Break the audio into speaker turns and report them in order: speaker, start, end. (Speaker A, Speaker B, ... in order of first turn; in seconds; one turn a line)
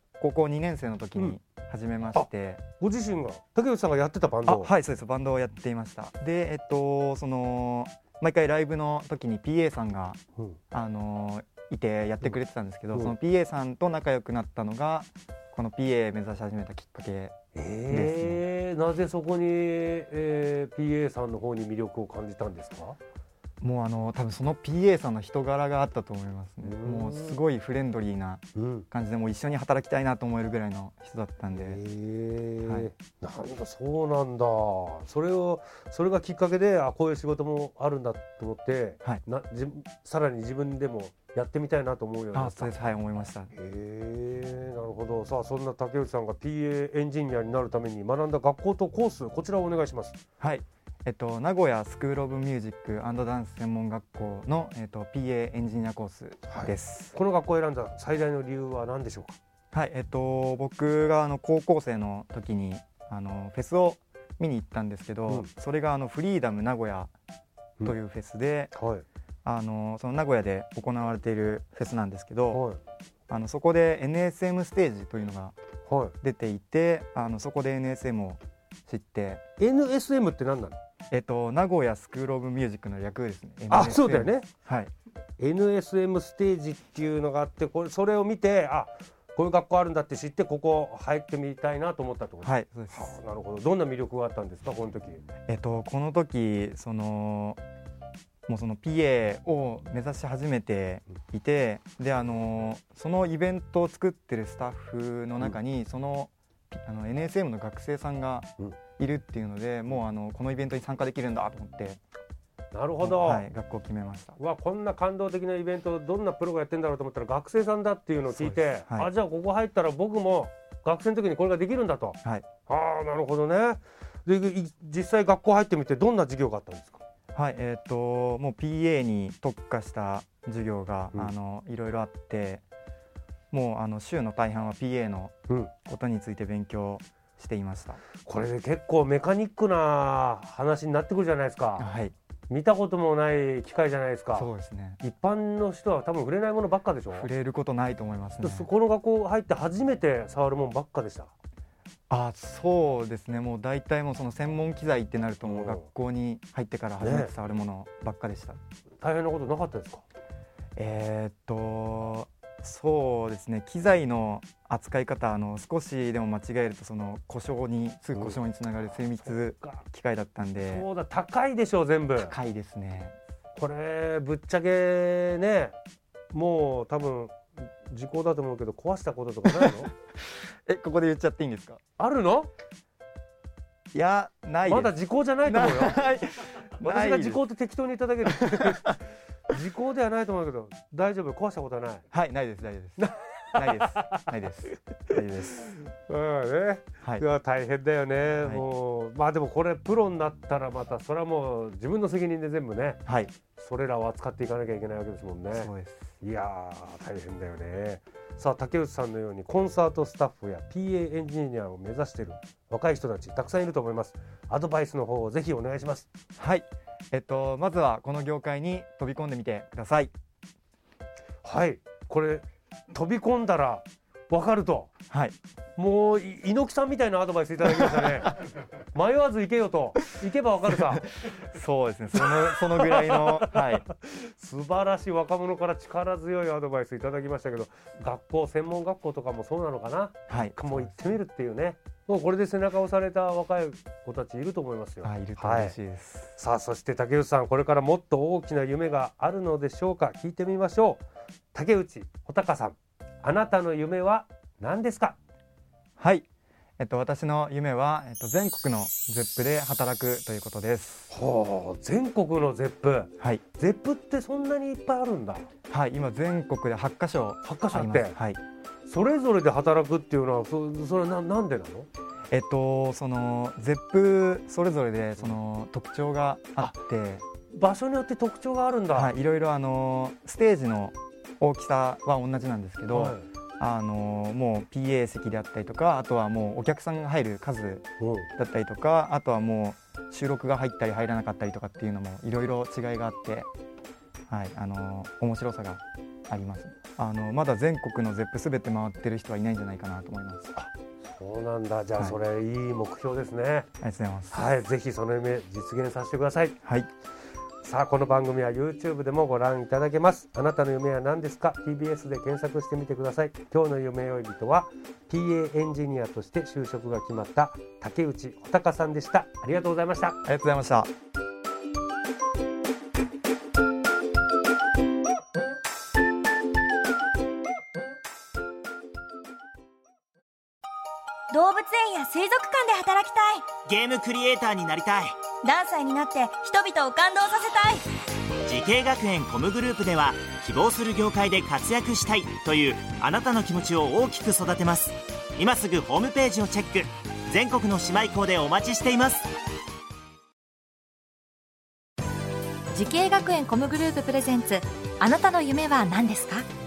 Speaker A: 0.2-2.6
Speaker B: 2.2-4.7
Speaker A: 4.5-10.2
Speaker A: 10.7-17.4
Speaker B: 17.5-23.0
Speaker A: 17.9-18.4
Speaker A: 23.6-31.8
Speaker B: 26.6-27.4
Speaker B: 28.6-28.9
Speaker B: 31.5-42.9
Speaker A: 32.6-32.9
Speaker A: 42.3-43.5
Speaker B: 43.5-50.2
Speaker A: 50.4-57.1
Speaker B: 56.5-59.4
Speaker A: 59.7-67.1
Speaker A: 67.8-68.8
Speaker B: 68.7-69.0
Speaker A: 69.4-72.6
Speaker B: 72.5-72.8
Speaker A: 73.3-75.5
Speaker B: 75.9-76.1
Speaker A: 76.2-79.4
Speaker B: 79.6-80.8
Speaker A: 81.1-84.9
Speaker B: 83.7-84.5
Speaker B: 85.4-95.2
Speaker A: 92.4-93.1
Speaker A: 95.5-97.6
Speaker A: 98.5-112.0
Speaker B: 112.7-113.5
Speaker A: 113.0-114.4
Speaker B: 114.4-127.0
Speaker A: 118.3-119.1
Speaker A: 127.3-132.6
Speaker A: 133.5-138.0
Speaker B: 138.2-141.9
Speaker A: 141.8-142.1
Speaker B: 142.5-144.5
Speaker A: 144.3-145.0
Speaker B: 145.0-147.3
Speaker A: 147.1-148.7
Speaker B: 148.4-151.3
Speaker A: 152.1-158.6
Speaker B: 155.4-155.9
Speaker B: 157.0-157.3
Speaker B: 159.0-160.1
Speaker A: 160.8-170.9
Speaker B: 168.1-168.4
Speaker B: 169.2-169.8
Speaker B: 170.6-172.3
Speaker A: 172.2-173.1
Speaker B: 173.6-175.8
Speaker B: 176.3-179.9
Speaker A: 180.7-181.8
Speaker B: 182.0-182.5
Speaker A: 183.9-187.4
Speaker B: 184.6-186.0
Speaker B: 186.8-192.1
Speaker A: 188.3-188.9
Speaker A: 192.1-195.7
Speaker B: 193.0-194.2
Speaker B: 195.6-203.0
Speaker A: 203.1-203.3
Speaker B: 203.6-216.1
Speaker A: 205.5-206.1
Speaker A: 216.4-220.1
Speaker B: 221.4-224.9
Speaker A: 225.1-225.4
Speaker B: 225.8-228.4
Speaker B: 228.9-231.1
Speaker A: 230.7-233.9
Speaker B: 232.2-245.8
Speaker A: 240.3-241.1
Speaker A: 245.0-246.3
Speaker B: 246.4-251.0
Speaker B: 251.5-255.2
Speaker A: 256.0-256.2
Speaker A: 256.8-261.1
Speaker B: 261.1-265.5
Speaker A: 265.7-268.4
Speaker B: 267.4-268.1
Speaker B: 268.8-271.9
Speaker A: 272.3-277.2
Speaker B: 277.5-279.1
Speaker A: 278.9-293.5
Speaker B: 282.9-283.3
Speaker B: 288.0-288.3
Speaker A: 294.3-300.7
Speaker B: 301.1-303.7
Speaker A: 303.8-304.4
Speaker B: 304.3-306.6
Speaker A: 306.6-306.9
Speaker B: 307.6-320.2
Speaker A: 320.2-320.9
Speaker C: 331.3-333.5
Speaker D: 333.6-335.1
Speaker C: 335.4-337.9
Speaker D: 338.5-349.3
Speaker E: 352.7-356.5